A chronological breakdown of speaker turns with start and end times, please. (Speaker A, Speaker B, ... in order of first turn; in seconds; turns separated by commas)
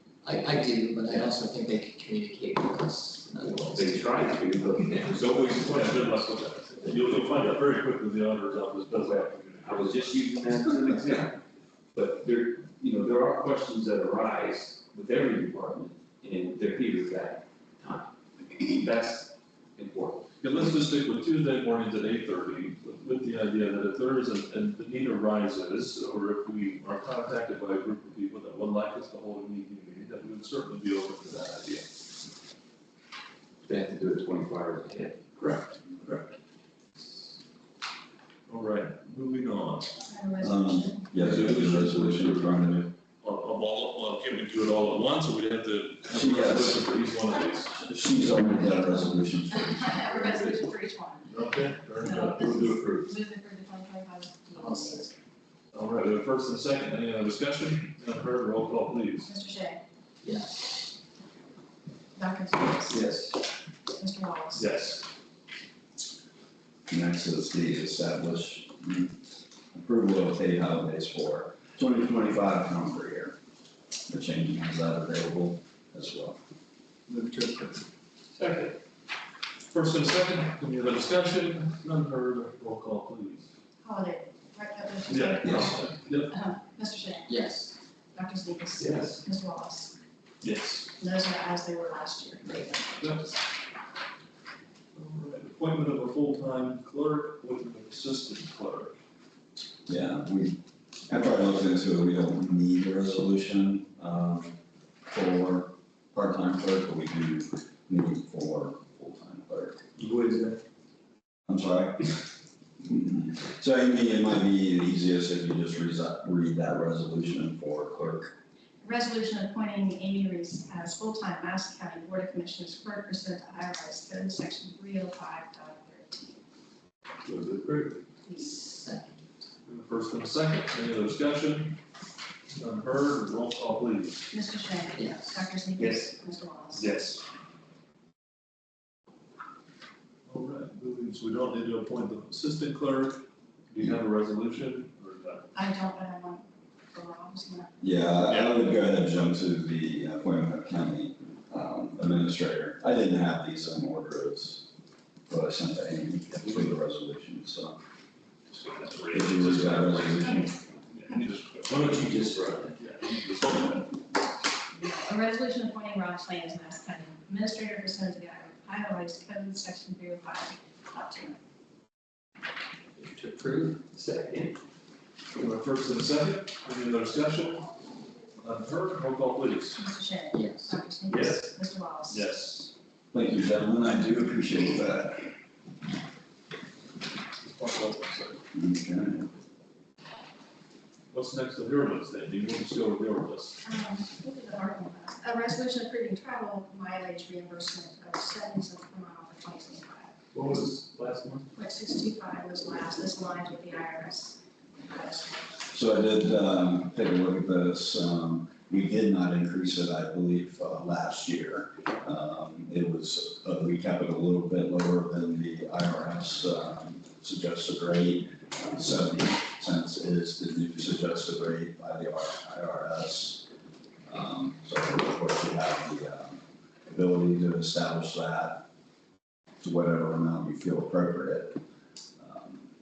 Speaker A: 0.2-4.2, Speaker B: 3.7-7.4, Speaker C: 5.4-10.2, Speaker B: 9.6-11.4, Speaker B: 11.9-20.3, Speaker C: 20.4-31.9, Speaker B: 33.6-35.2, Speaker C: 35.4-36.3, Speaker C: 38.5-39.9, Speaker D: 40.0-41.1, Speaker E: 40.4-42.9, Speaker C: 41.1-47.9, Speaker E: 46.1-46.8, Speaker E: 47.8-50.1, Speaker D: 49.5-55.1, Speaker C: 51.3-52.8, Speaker B: 52.0-53.1, Speaker A: 54.6-55.1, Speaker C: 55.7-59.3, Speaker D: 59.2-59.8, Speaker A: 60.2-60.8, Speaker D: 62.1-63.1, Speaker B: 62.9-63.4, Speaker D: 64.0-64.7, Speaker C: 64.5-65.1, Speaker E: 66.9-69.2, Speaker E: 69.7-73.3, Speaker E: 74.1-76.4, Speaker C: 78.3-78.8, Speaker C: 79.7-83.5, Speaker D: 83.8-87.4, Speaker C: 85.1-86.3, Speaker A: 87.3-87.7, Speaker D: 88.1-89.9, Speaker C: 88.8-89.1, Speaker C: 90.4-90.9, Speaker D: 91.0-93.3, Speaker C: 93.0-93.3, Speaker C: 94.9-99.0, Speaker E: 99.9-104.5, Speaker E: 105.1-109.8, Speaker B: 110.0-110.6, Speaker E: 111.5-112.2, Speaker E: 112.8-118.3, Speaker D: 118.8-126.4, Speaker C: 127.2-128.0, Speaker A: 128.3-129.3, Speaker C: 129.6-131.8, Speaker C: 132.5-134.2, Speaker D: 134.3-136.9, Speaker A: 134.9-135.5, Speaker C: 140.3-145.5, Speaker D: 145.5-147.7, Speaker E: 147.8-154.7, Speaker E: 155.3-157.8, Speaker C: 158.5-163.9, Speaker E: 159.1-160.5, Speaker D: 160.1-160.6, Speaker B: 161.7-162.8, Speaker D: 164.7-171.4, Speaker A: 173.0-173.8, Speaker B: 173.9-174.6, Speaker C: 175.3-177.7, Speaker C: 178.4-179.8, Speaker D: 179.7-182.3, Speaker A: 180.3-180.8, Speaker C: 181.1-181.5, Speaker C: 182.1-182.7, Speaker E: 183.1-185.3, Speaker C: 187.4-188.4, Speaker E: 188.5-189.3, Speaker C: 191.1-193.6, Speaker D: 193.6-200.2, Speaker C: 200.3-201.4, Speaker D: 201.5-205.7, Speaker E: 205.7-223.5, Speaker E: 224.1-228.7, Speaker E: 229.6-231.6, Speaker E: 232.2-232.6